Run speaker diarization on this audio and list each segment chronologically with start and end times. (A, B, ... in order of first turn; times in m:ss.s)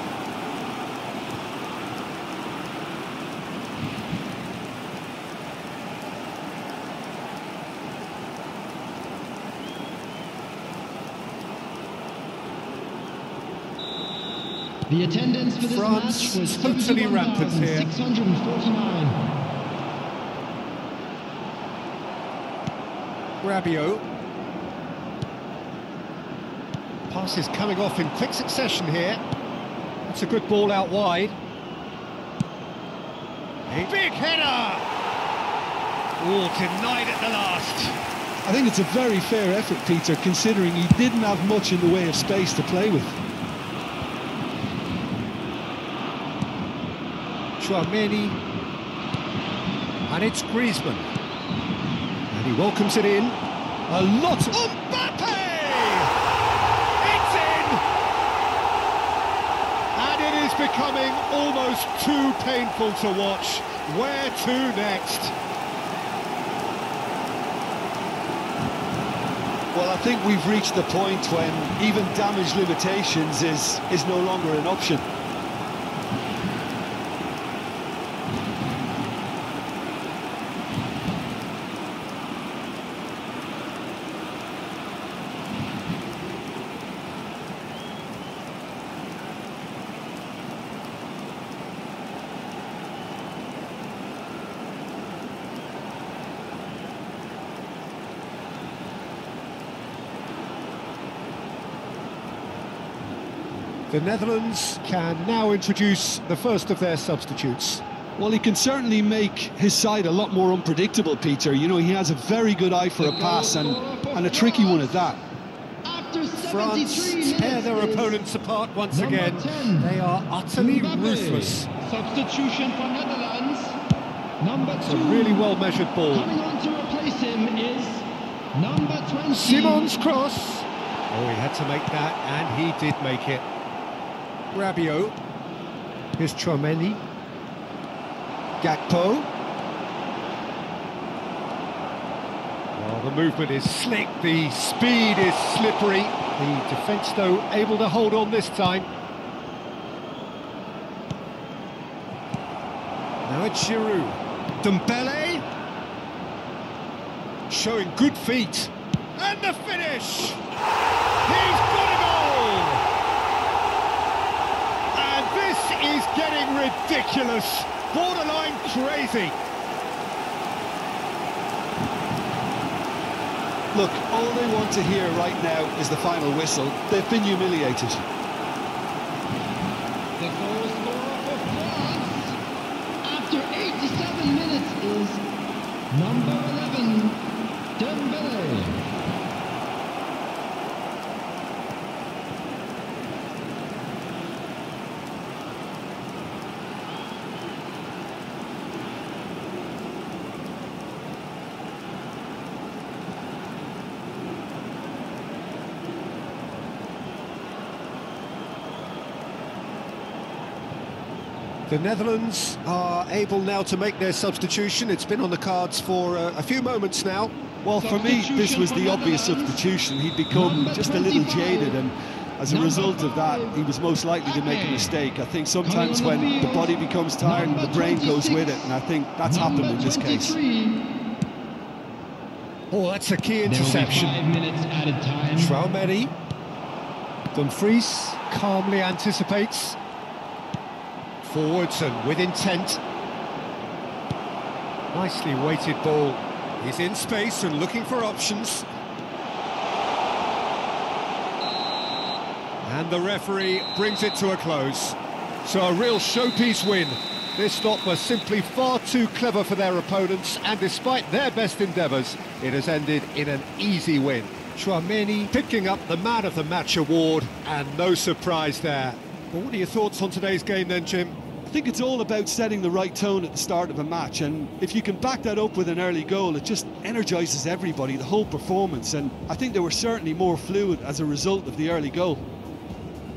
0:14.9-0:19.3 A
0:15.6-0:17.9 B
0:23.4-0:24.0 B
0:27.1-0:29.2 B
0:30.0-0:31.4 B
0:33.7-0:34.9 B
0:36.2-0:38.0 B
0:38.4-0:43.2 C
0:47.6-0:48.4 B
0:50.1-0:51.1 B
0:52.3-0:56.1 B
0:57.0-0:57.8 B
1:00.0-1:05.4 B
1:09.7-1:15.0 C
1:43.9-1:47.8 B
1:48.2-1:55.2 C
1:53.0-1:55.1 A
1:55.8-1:58.2 A
1:56.4-2:01.7 B
1:58.9-1:59.9 A
2:00.6-2:03.8 A
2:04.4-2:05.5 A
2:04.8-2:06.3 B
2:06.1-2:09.9 A
2:09.3-2:13.4 B
2:14.5-2:15.2 B
2:16.2-2:17.0 B
2:18.6-2:19.3 B
2:22.8-2:28.9 B
2:33.2-2:35.4 B
2:37.5-2:40.4 B
2:41.3-2:42.8 B
2:44.9-2:49.4 B
2:53.7-2:58.0 C
3:00.2-3:02.4 A
3:03.0-3:05.3 A
3:05.9-3:08.8 A
3:31.7-3:37.3 B
3:37.6-3:50.4 C
3:37.8-3:39.6 A
3:40.3-3:41.8 A
3:42.5-3:43.6 A
3:44.2-3:45.0 A
3:45.6-3:50.9 A
3:52.7-3:54.2 B
3:53.4-3:55.6 A
3:55.4-3:56.1 B
3:57.3-3:59.8 B
4:01.2-4:02.8 B
4:04.9-4:08.7 B
4:12.6-4:31.2 B
4:31.5-4:42.2 C